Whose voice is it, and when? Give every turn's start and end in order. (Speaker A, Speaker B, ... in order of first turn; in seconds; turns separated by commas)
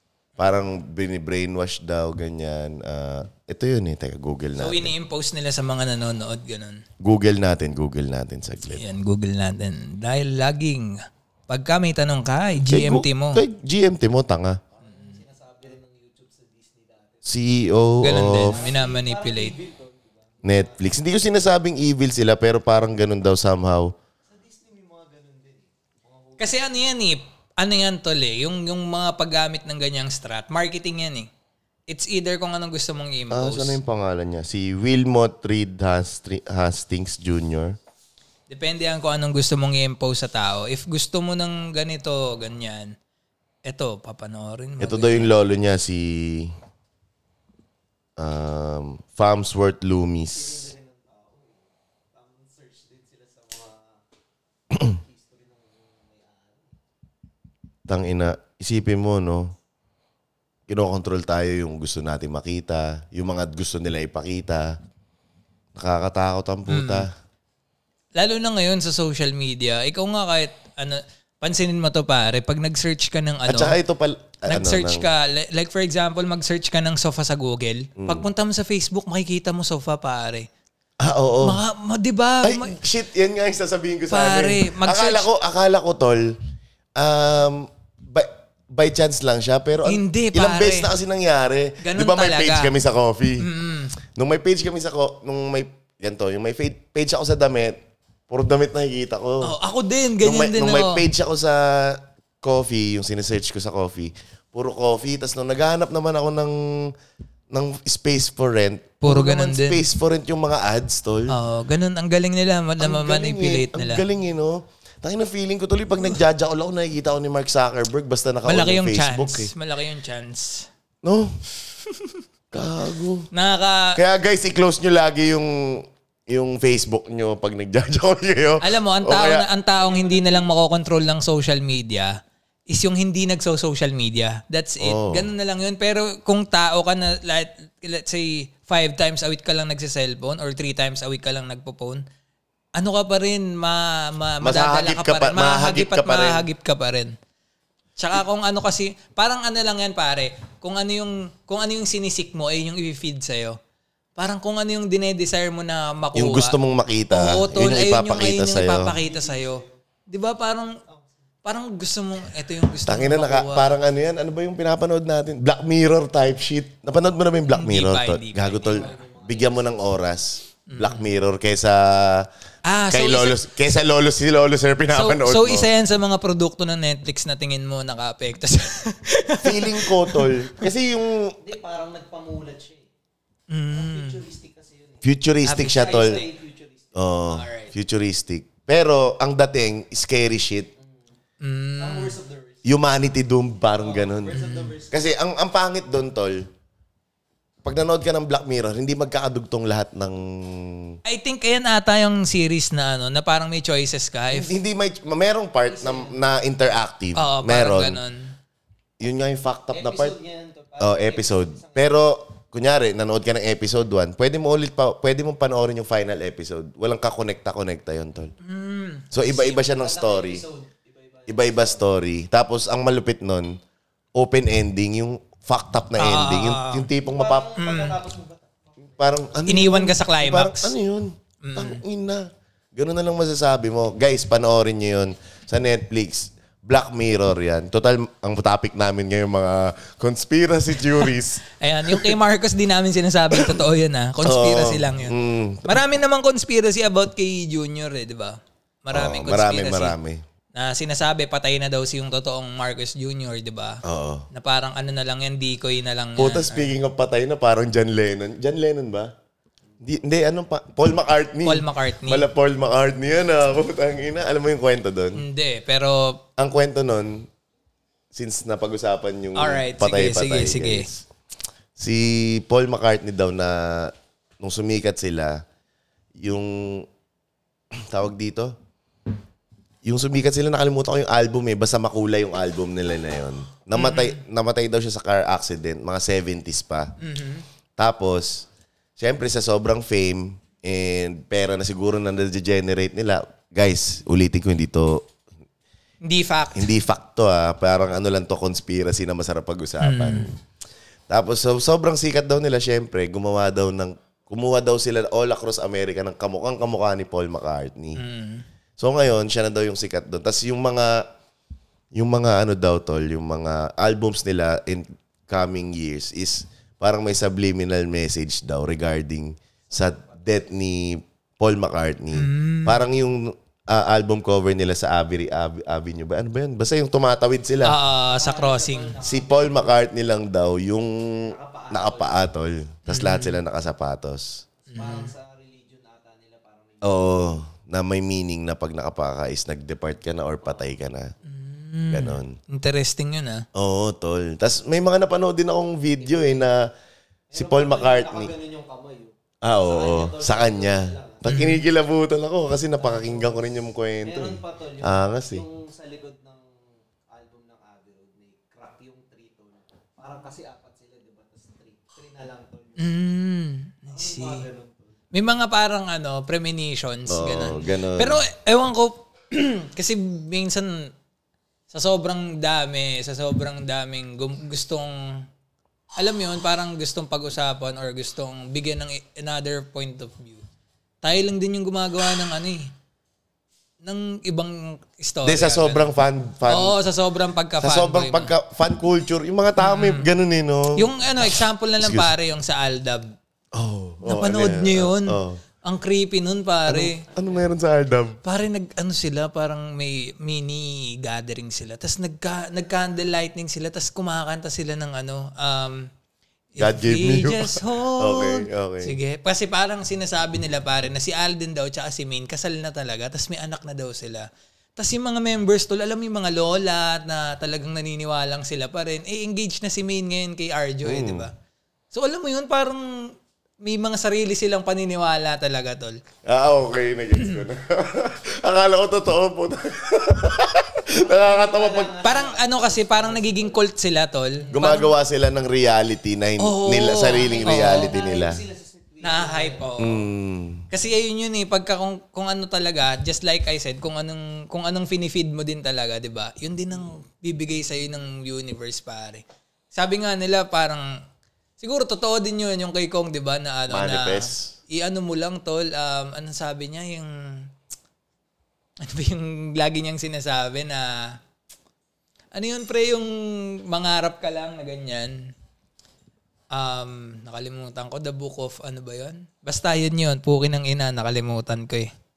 Speaker A: 0.4-4.9, Speaker B: 4.6-6.8, Speaker A: 7.0-8.8, Speaker B: 8.7-13.4, Speaker A: 12.7-14.6, Speaker C: 14.7-17.3, Speaker B: 14.8-15.2, Speaker A: 17.2-18.6, Speaker B: 18.0-19.6, Speaker C: 18.1-20.8, Speaker A: 20.4-23.9, Speaker C: 24.2-26.8, Speaker B: 26.4-31.3, Speaker B: 31.9-33.8, Speaker A: 33.3-37.8, Speaker B: 38.5-42.9, Speaker B: 43.6-45.3, Speaker A: 44.8-46.5, Speaker A: 48.2-50.7, Speaker C: 50.3-54.0, Speaker C: 54.7-56.8, Speaker A: 57.9-59.5, Speaker A: 60.7-64.8, Speaker A: 65.7-67.1, Speaker B: 66.7-67.1, Speaker B: 68.2-73.8, Speaker A: 73.4-75.1, Speaker B: 74.5-80.5, Speaker A: 78.0-78.2, Speaker A: 81.0-81.6, Speaker B: 81.4-82.8, Speaker A: 82.4-86.3, Speaker B: 84.1-85.3, Speaker A: 87.0-93.5, Speaker B: 89.8-90.9, Speaker B: 91.8-92.7, Speaker B: 93.4-93.9, Speaker A: 94.0-99.5, Speaker B: 99.4-101.0, Speaker A: 100.2-106.9, Speaker A: 107.5-111.3, Speaker B: 109.0-109.8, Speaker B: 111.3-114.0, Speaker A: 112.8-119.5, Speaker B: 118.4-120.7, Speaker A: 121.0-121.3, Speaker B: 121.9-122.2, Speaker A: 122.5-123.3, Speaker B: 123.3-124.0, Speaker A: 124.0-129.5, Speaker B: 128.6-132.2, Speaker C: 129.8-130.4, Speaker B: 132.7-142.0, Speaker A: 134.8-135.3, Speaker B: 142.8-147.1, Speaker A: 144.4-146.4, Speaker B: 148.0-153.6, Speaker B: 154.2-156.6, Speaker A: 156.1-158.9, Speaker B: 157.1-160.8, Speaker C: 158.8-159.8, Speaker B: 161.4-163.8, Speaker A: 162.8-172.3, Speaker B: 167.5-168.9, Speaker C: 168.6-169.7, Speaker B: 170.7-171.0, Speaker B: 172.7-173.5, Speaker A: 172.9-175.7, Speaker B: 174.9-180.7, Speaker A: 179.4-181.4, Speaker C: 181.4-182.9, Speaker B: 183.5-184.2, Speaker C: 183.7-187.1, Speaker A: 185.0-186.2, Speaker B: 185.4-186.2, Speaker A: 186.9-190.7, Speaker B: 187.3-187.7, Speaker C: 190.8-191.1, Speaker B: 191.4-192.1, Speaker C: 191.8-192.7, Speaker A: 192.6-196.5, Speaker C: 193.7-195.1, Speaker B: 194.3-194.7, Speaker A: 197.6-201.0, Speaker B: 201.0-204.5, Speaker A: 204.3-208.0, Speaker C: 205.7-206.2, Speaker B: 207.2-208.3, Speaker A: 209.0-210.2, Speaker C: 209.7-212.0, Speaker A: 210.8-218.3, Speaker B: 218.4-219.2, Speaker A: 219.1-220.4, Speaker C: 219.4-221.8, Speaker A: 221.3-223.6, Speaker A: 224.1-227.5, Speaker B: 226.0-226.9, Speaker C: 227.0-229.3, Speaker B: 227.6-227.9, Speaker A: 229.0-242.2, Speaker B: 229.5-230.7, Speaker B: 231.4-231.8, Speaker B: 241.6-249.9, Speaker A: 244.2-245.8, Speaker A: 248.9-250.2, Speaker B: 250.5-256.7, Speaker A: 253.8-254.3, Speaker A: 256.2-259.1, Speaker A: 259.8-265.2, Speaker B: 261.4-262.2, Speaker B: 265.1-266.2, Speaker A: 266.4-267.3, Speaker A: 268.1-271.1, Speaker B: 269.4-270.9, Speaker A: 271.8-275.4, Speaker A: 276.2-276.9, Speaker A: 277.7-278.6, Speaker A: 279.8-286.9, Speaker B: 283.7-284.2, Speaker B: 287.0-287.4, Speaker A: 287.8-288.5, Speaker A: 289.0-295.1, Speaker B: 296.0-296.7, Speaker A: 296.5-300.4, Speaker B: 299.8-300.3, Speaker A: 301.1-308.0, Speaker B: 308.0-308.4, Speaker A: 308.8-311.1, Speaker A: 311.9-327.8, Speaker C: 319.7-320.2, Speaker B: 322.1-322.8, Speaker B: 327.6-328.9, Speaker C: 328.1-329.9, Speaker A: 329.0-334.4, Speaker C: 331.2-332.3, Speaker B: 332.9-333.4, Speaker C: 334.6-337.4, Speaker B: 334.7-335.1, Speaker A: 336.8-341.1, Speaker B: 341.2-343.4, Speaker A: 341.9-342.4, Speaker A: 343.5-346.7, Speaker C: 346.1-346.4, Speaker C: 347.3-351.3, Speaker A: 347.3-348.3, Speaker A: 349.4-355.4, Speaker B: 351.2-351.6, Speaker C: 352.8-356.6, Speaker C: 357.1-363.0, Speaker B: 362.8-364.4, Speaker C: 363.9-364.9, Speaker B: 365.1-370.9, Speaker A: 367.1-368.2, Speaker B: 371.7-375.2, Speaker B: 376.0-380.4, Speaker B: 381.0-382.7, Speaker B: 383.8-385.9, Speaker A: 385.2-386.8, Speaker B: 386.5-388.3, Speaker A: 387.6-392.1, Speaker B: 389.6-390.1, Speaker B: 390.8-393.1, Speaker A: 393.5-395.4, Speaker B: 394.0-397.0, Speaker A: 396.7-398.2, Speaker B: 398.2-405.9, Speaker B: 406.5-421.3, Speaker A: 406.6-408.9, Speaker A: 420.8-421.3, Speaker B: 421.9-426.0, Speaker A: 426.2-432.0, Speaker C: 430.9-433.6, Speaker B: 432.0-434.9, Speaker A: 434.5-438.4, Speaker B: 436.4-437.9, Speaker C: 437.1-439.7, Speaker B: 439.0-440.0, Speaker A: 439.8-440.6, Speaker B: 440.7-451.0, Speaker B: 451.6-457.5, Speaker A: 453.7-454.5, Speaker B: 458.8-461.2, Speaker B: 462.3-465.3, Speaker B: 466.5-471.9